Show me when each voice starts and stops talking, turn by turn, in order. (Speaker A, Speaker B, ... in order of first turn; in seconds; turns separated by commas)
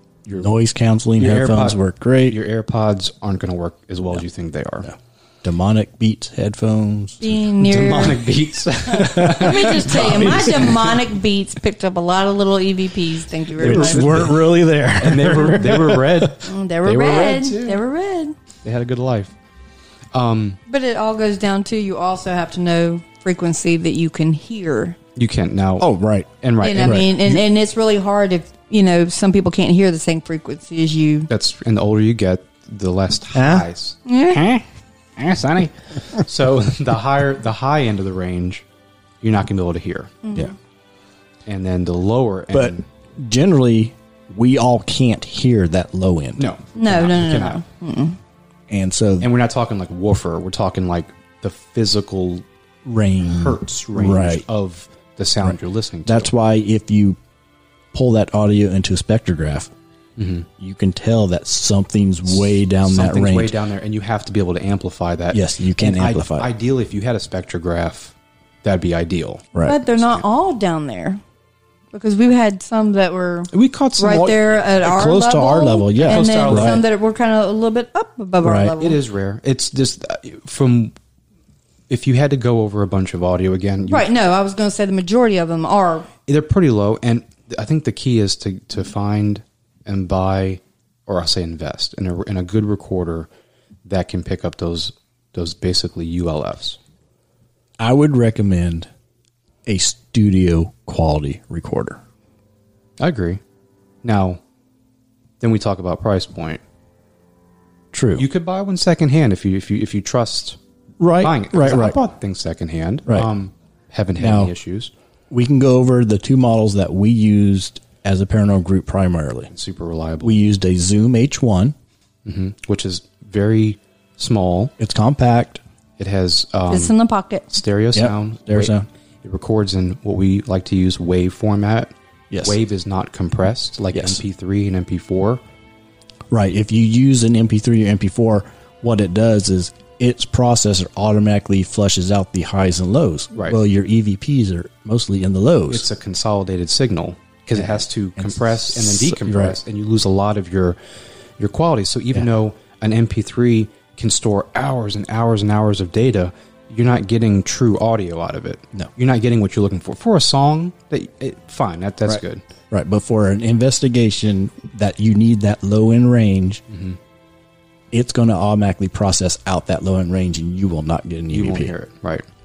Speaker A: 0.4-2.4, Speaker B: 1.2-4.9, Speaker A: 4.8-7.2, Speaker C: 7.2-8.2, Speaker B: 7.6-11.0, Speaker A: 8.9-10.8, Speaker C: 9.0-14.2, Speaker B: 13.6-14.4, Speaker A: 13.6-16.3, Speaker B: 15.0-17.8, Speaker C: 16.4-18.3, Speaker B: 18.6-19.3, Speaker B: 20.1-20.6, Speaker C: 20.7-25.0, Speaker B: 25.1-25.9, Speaker A: 25.8-27.4, Speaker B: 26.4-27.1, Speaker C: 26.6-31.3, Speaker B: 31.3-34.6, Speaker A: 33.3-33.7, Speaker C: 34.0-34.4, Speaker B: 35.2-38.6, Speaker B: 39.2-40.3, Speaker C: 40.2-40.5, Speaker B: 41.5-42.8, Speaker A: 42.5-46.4, Speaker B: 46.4-47.6, Speaker C: 46.7-48.2, Speaker A: 48.7-49.3, Speaker B: 49.2-52.4, Speaker A: 52.8-54.4, Speaker B: 53.2-56.3, Speaker A: 55.4-57.2, Speaker A: 57.9-59.7, Speaker B: 60.2-60.5, Speaker A: 60.5-63.5, Speaker B: 62.3-70.2, Speaker A: 65.3-66.5, Speaker C: 69.6-71.2, Speaker C: 71.9-79.0, Speaker B: 73.5-74.4, Speaker A: 74.8-76.8, Speaker B: 76.0-76.8, Speaker A: 78.4-78.7, Speaker B: 78.8-81.0, Speaker B: 81.9-84.1, Speaker C: 83.9-86.1, Speaker B: 86.3-93.3, Speaker B: 93.8-96.8, Speaker A: 97.8-98.9, Speaker A: 99.7-102.0, Speaker B: 103.0-103.4, Speaker B: 104.0-104.4, Speaker B: 105.4-106.6, Speaker A: 107.9-108.3, Speaker B: 108.2-110.6, Speaker A: 111.0-112.0, Speaker B: 111.2-114.9, Speaker A: 114.2-114.5, Speaker A: 115.3-119.5, Speaker B: 119.5-120.4, Speaker A: 120.2-121.8, Speaker B: 122.2-124.7, Speaker A: 124.8-125.6, Speaker B: 126.0-126.9, Speaker C: 126.7-127.4, Speaker B: 127.5-135.4, Speaker A: 127.9-128.8, Speaker A: 132.3-132.6, Speaker A: 133.9-134.2, Speaker A: 136.3-145.8, Speaker B: 143.3-143.6, Speaker B: 145.7-150.8, Speaker A: 147.5-149.6, Speaker B: 151.4-162.5, Speaker A: 162.1-166.6, Speaker B: 166.7-167.0, Speaker A: 167.9-171.7, Speaker B: 171.3-172.2